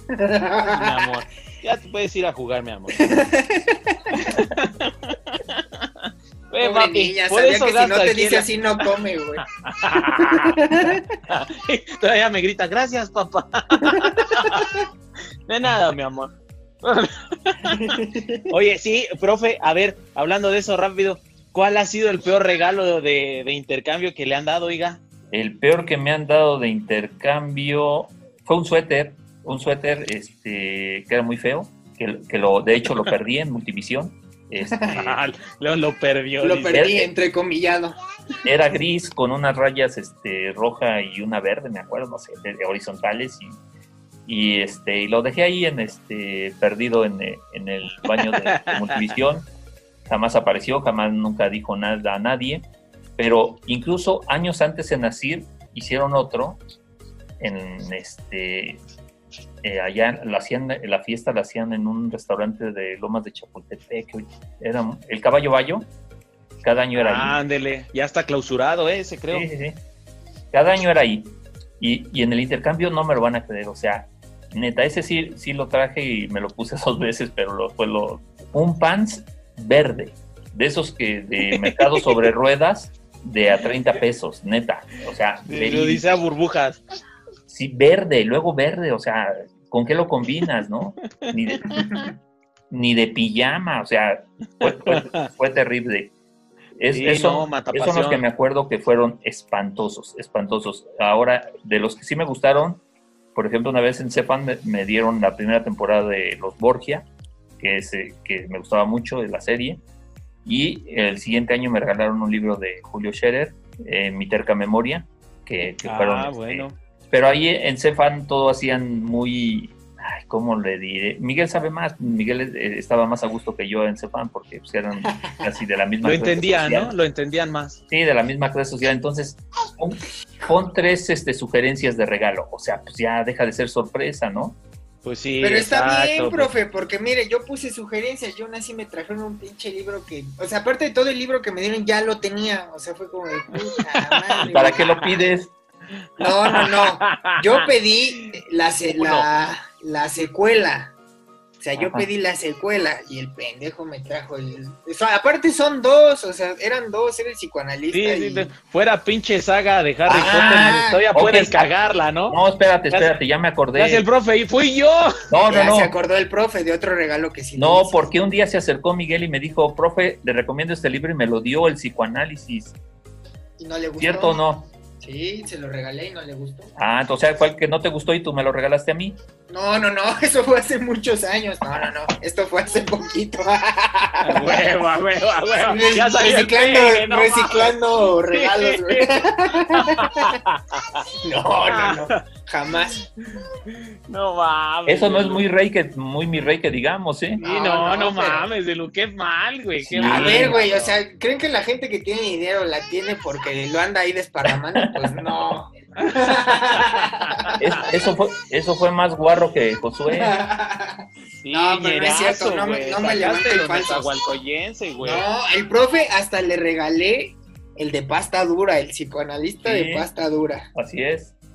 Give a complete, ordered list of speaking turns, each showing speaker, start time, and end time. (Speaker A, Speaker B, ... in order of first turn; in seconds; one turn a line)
Speaker A: 0.1-1.1
Speaker B: 0.7-3.0
Speaker A: 3.0-4.2
Speaker B: 4.2-8.5
Speaker A: 6.6-9.4
Speaker B: 9.6-10.6
Speaker A: 10.2-11.1
Speaker B: 11.3-14.8
Speaker A: 13.8-14.1
Speaker B: 15.5-17.9
Speaker A: 17.7-18.5
Speaker B: 18.5-25.0
Speaker C: 25.3-35.2
Speaker A: 34.7-35.1
Speaker B: 34.9-37.1
Speaker A: 36.4-38.0
Speaker C: 36.7-37.1
Speaker C: 38.4-43.6
Speaker C: 44.2-49.5
Speaker B: 48.1-49.1
Speaker C: 50.1-56.6
Speaker C: 57.4-58.8
Speaker C: 59.6-65.9
Speaker C: 66.6-67.4
Speaker B: 67.0-69.5
Speaker C: 69.3-69.8
Speaker C: 70.5-86.0
Speaker B: 81.5-82.1
Speaker B: 85.5-86.8
Speaker C: 87.5-91.9
Speaker B: 91.2-92.1
Speaker C: 92.7-96.1
Speaker B: 94.6-95.3
Speaker C: 96.8-102.8
Speaker B: 96.9-98.2
Speaker C: 103.3-107.0
Speaker C: 107.6-109.8
Speaker C: 110.4-126.9
Speaker B: 115.8-116.7
Speaker A: 125.1-125.4
Speaker B: 126.0-127.8
Speaker C: 127.9-134.6
Speaker B: 135.0-136.5
Speaker A: 135.4-145.3
Speaker B: 143.6-144.5
Speaker C: 144.5-145.5
Speaker A: 146.2-150.9
Speaker B: 146.5-147.7
Speaker B: 148.9-149.3
Speaker A: 151.6-158.5
Speaker B: 151.8-152.1
Speaker B: 157.9-162.4
Speaker A: 160.1-161.0
Speaker C: 160.1-161.7
Speaker C: 162.3-164.0
Speaker B: 162.9-163.2
Speaker B: 163.8-165.1
Speaker C: 165.3-165.9
Speaker A: 165.5-168.1
Speaker C: 167.6-172.7
Speaker A: 173.6-176.7
Speaker C: 174.0-174.7
Speaker C: 176.8-179.2
Speaker A: 179.5-184.6
Speaker B: 184.2-187.8
Speaker A: 185.6-190.3
Speaker B: 188.3-191.0
Speaker A: 191.2-193.0
Speaker B: 191.6-192.2
Speaker B: 193.2-195.4
Speaker C: 194.9-197.4
Speaker B: 197.4-200.9
Speaker A: 197.4-198.5
Speaker C: 199.8-200.6
Speaker A: 200.0-207.5
Speaker B: 206.0-207.7
Speaker C: 207.6-210.3
Speaker A: 210.1-214.1
Speaker B: 211.4-215.3
Speaker A: 215.0-220.7
Speaker C: 219.6-220.1
Speaker C: 220.8-221.3